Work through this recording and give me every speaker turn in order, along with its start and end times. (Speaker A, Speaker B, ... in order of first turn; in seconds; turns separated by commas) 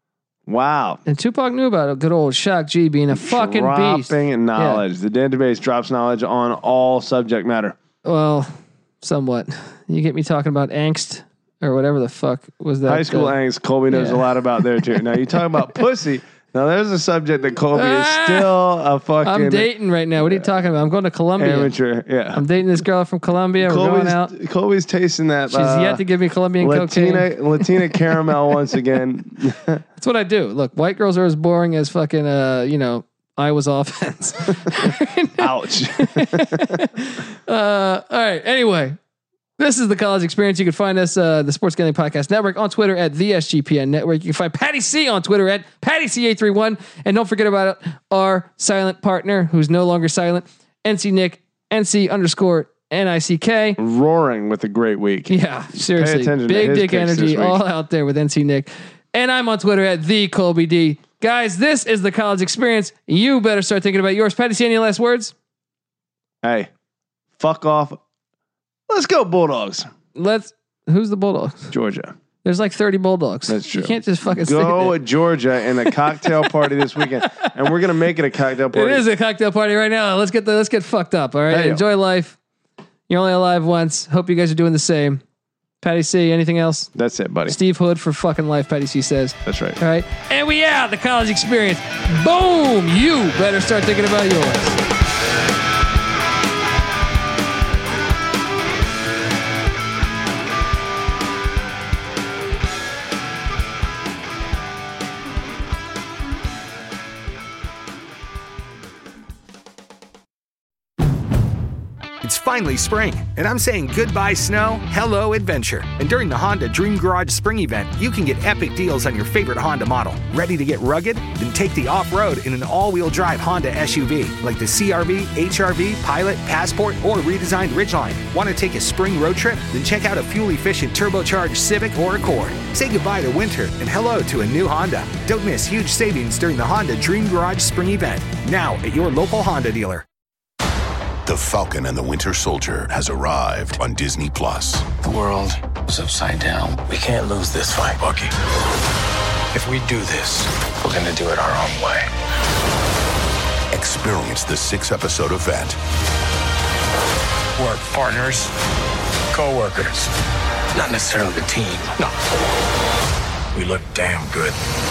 Speaker A: 0.5-1.0, Speaker B: 1.1-4.8, Speaker A: 3.1-7.8, Speaker B: 8.0-13.3, Speaker A: 12.8-19.7, Speaker B: 13.9-15.0, Speaker B: 17.7-18.5, Speaker B: 19.2-21.7, Speaker A: 21.4-22.4, Speaker B: 22.3-24.3, Speaker A: 23.6-26.0, Speaker B: 25.5-28.3, Speaker A: 26.6-29.8, Speaker B: 30.0-39.0, Speaker A: 35.4-36.8, Speaker B: 39.6-53.8, Speaker A: 53.8-57.6, Speaker B: 55.3-65.3, Speaker A: 66.4-66.7, Speaker A: 67.4-68.0, Speaker A: 68.9-69.9, Speaker B: 70.1-71.7, Speaker A: 71.7-72.1, Speaker B: 72.4-75.0, Speaker A: 73.5-79.0, Speaker B: 77.0-77.5, Speaker B: 78.7-82.4, Speaker A: 81.5-81.8, Speaker B: 83.1-85.2, Speaker B: 85.8-86.9, Speaker A: 86.9-87.6, Speaker B: 87.5-94.8, Speaker A: 89.4-89.8, Speaker C: 112.2-140.0, Speaker D: 141.2-144.9, Speaker E: 145.0-148.3, Speaker E: 149.5-152.1, Speaker D: 153.7-155.8, Speaker E: 157.6-158.5, Speaker E: 159.3-160.1, Speaker E: 160.7-162.2, Speaker E: 163.5-164.6